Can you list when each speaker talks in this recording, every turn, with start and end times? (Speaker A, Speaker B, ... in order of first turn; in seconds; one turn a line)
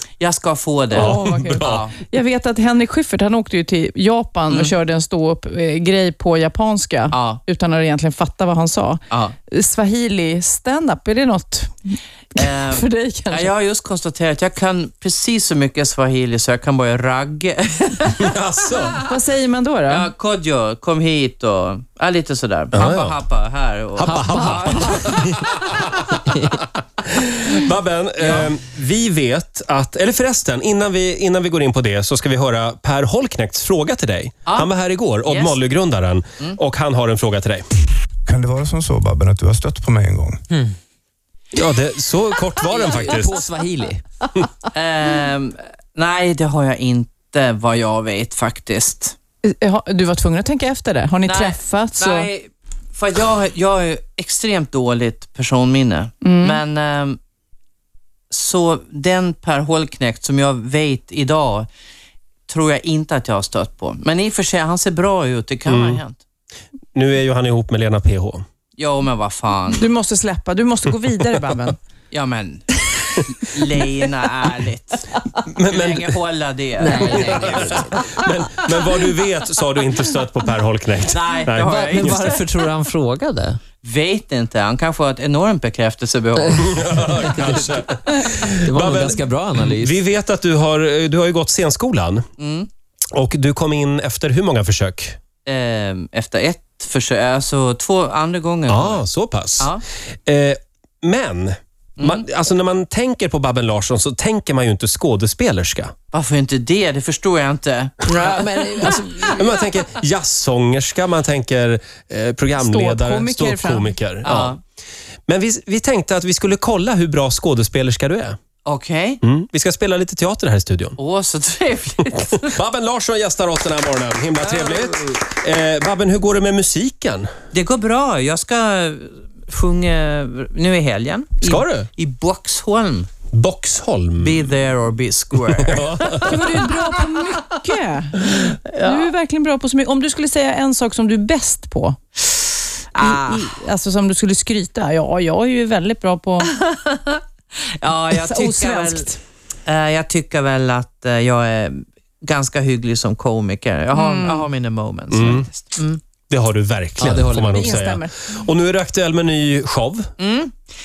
Speaker A: 0.2-2.0
Speaker B: 0.9-13.5
Speaker C: 0.9-1.8
Speaker A: 7.1-7.4
Speaker A: 12.3-18.3
Speaker C: 18.2-19.0
Speaker B: 18.9-20.1
Speaker A: 19.9-25.1
Speaker C: 22.7-23.2
Speaker D: 24.0-25.5
Speaker C: 24.0-26.0
Speaker D: 26.3-26.6
Speaker C: 27.1-37.6
Speaker A: 35.2-35.6
Speaker E: 38.2-40.4
Speaker C: 41.5-43.4
Speaker D: 42.7-44.0
Speaker A: 44.7-49.1
Speaker B: 49.4-52.3
Speaker A: 51.3-57.2
Speaker B: 56.2-56.6
Speaker A: 58.3-61.7
Speaker A: 62.5-66.2
Speaker C: 65.7-66.0
Speaker C: 66.9-68.4
Speaker A: 68.8-69.8
Speaker B: 69.7-71.8
Speaker A: 72.1-75.1
Speaker C: 75.5-76.1
Speaker A: 75.7-77.8
Speaker D: 76.8-78.0
Speaker C: 77.0-82.2
Speaker A: 81.1-82.4
Speaker D: 81.6-83.6
Speaker A: 83.8-86.8
Speaker D: 86.3-87.8
Speaker C: 86.6-92.2
Speaker D: 88.5-89.9
Speaker A: 92.4-92.7
Speaker C: 93.2-95.2
Speaker A: 95.5-99.1
Speaker C: 98.7-99.7
Speaker C: 100.2-105.9
Speaker A: 102.0-102.2
Speaker A: 106.1-108.0
Speaker D: 108.0-109.5
Speaker C: 109.2-114.5
Speaker B: 112.5-114.0
Speaker A: 114.2-114.6
Speaker C: 115.3-118.4
Speaker A: 118.7-119.2
Speaker C: 119.2-121.0
Speaker A: 121.0-122.5
Speaker C: 122.5-127.3
Speaker A: 124.4-124.9
Speaker A: 127.5-133.1
Speaker C: 131.4-131.9
Speaker C: 133.3-134.4
Speaker A: 134.2-136.1
Speaker C: 135.6-136.6
Speaker B: 136.2-142.0
Speaker A: 138.7-139.1
Speaker A: 142.9-143.5
Speaker B: 143.0-146.5
Speaker A: 146.5-147.2
Speaker A: 147.8-156.0
Speaker B: 148.1-149.2
Speaker B: 153.9-154.5
Speaker C: 155.1-155.5
Speaker C: 156.3-160.1
Speaker D: 157.0-157.8
Speaker B: 157.6-158.3
Speaker A: 160.2-160.5